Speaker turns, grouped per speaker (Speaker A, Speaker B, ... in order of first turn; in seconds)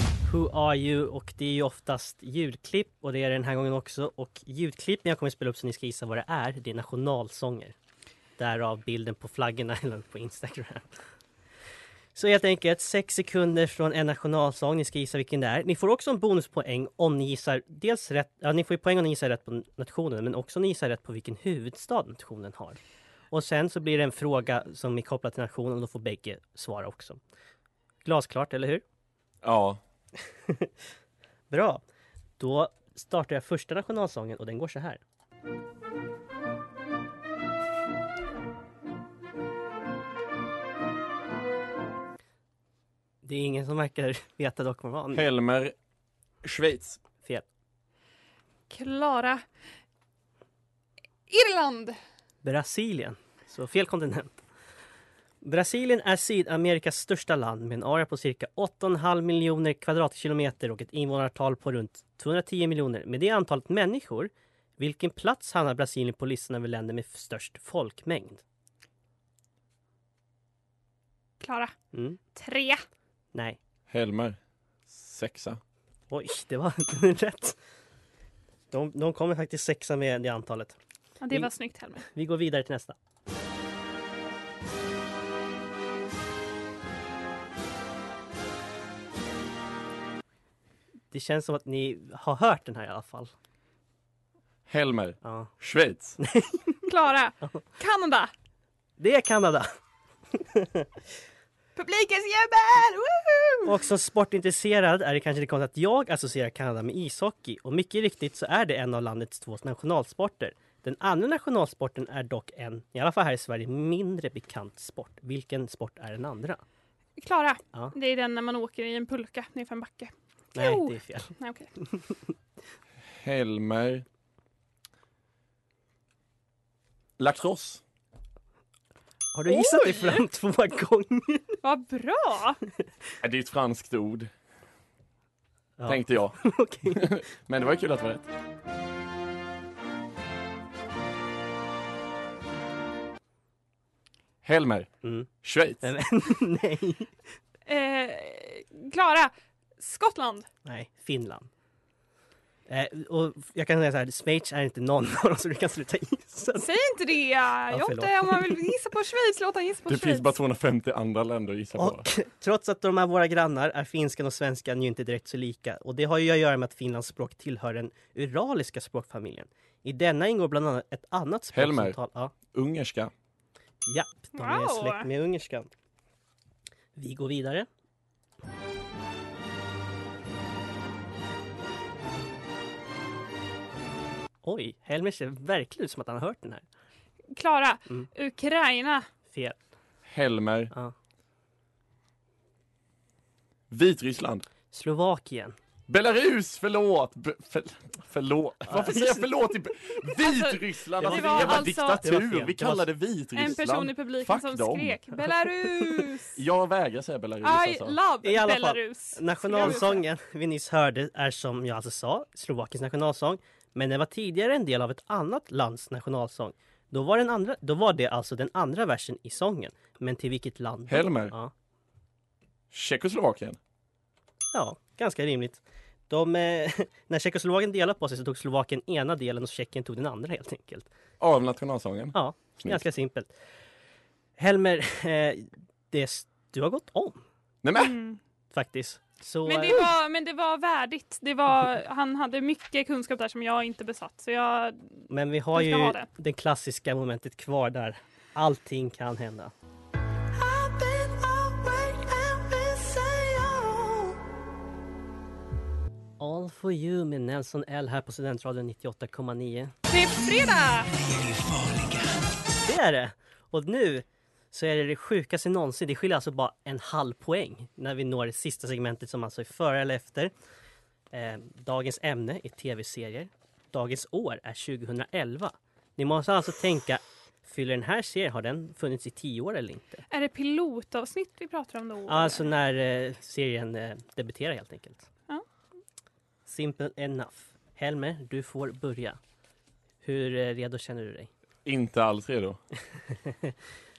Speaker A: 0.3-7.8, 8.4-10.9, 12.2-22.8, 23.3-27.2, 28.1-28.8, 31.5-31.8, 32.4-35.0, 43.2-45.2, 52.4-54.3, 55.4-68.4, 71.9-72.2, 76.1-77.6, 78.7-80.8, 82.0-83.0, 91.1-93.3, 95.2-95.5, 96.2-96.8, 99.0-99.7, 100.3-100.9, 103.7-116.6, 120.5-121.3, 129.3-131.6, 135.8-137.1, 145.0-145.3, 145.8-147.1, 150.7-151.5, 152.7-156.7, 157.7-158.7, 161.8-172.3, 173.9-175.7, 177.0-177.7, 184.4-186.6, 189.3-189.6, 194.7-195.6, 198.7-199.3, 201.0-202.9, 208.2-221.5, 224.5-230.9, 232.1-233.3, 234.4-237.2, 238.5-239.9, 245.1-249.5, 256.2-259.7, 262.6-270.3, 271.1-280.0, 282.1-285.1, 286.5-289.2, 290.0-291.3, 293.2-293.5
Speaker B: 29.4-29.8, 45.1-45.8, 46.4-47.0, 73.9-74.4, 74.9-75.6, 94.7-96.2, 123.2-124.0, 127.2-127.8, 133.2-134.3, 135.9-138.3, 144.4-145.8, 159.9-162.1, 171.5-172.0, 172.5-173.1, 190.1-190.7, 193.7-194.4, 195.9-205.0, 206.4-208.0, 220.9-221.3, 222.7-223.6, 231.2-232.8, 237.6-238.0, 291.6-292.6
Speaker C: 48.7-49.4, 51.3-52.0, 71.4-71.7, 72.3-72.8, 81.2-82.1, 96.9-98.3, 101.8-103.7, 117.2-121.7, 129.5-130.2, 131.6-132.6, 147.7-150.5, 156.6-160.3, 174.4-175.1, 187.3-189.1, 200.2-202.0, 203.3-206.4, 207.4-210.0, 237.8-238.2, 239.5-246.1, 250.4-253.9, 259.9-260.9, 280.1-282.5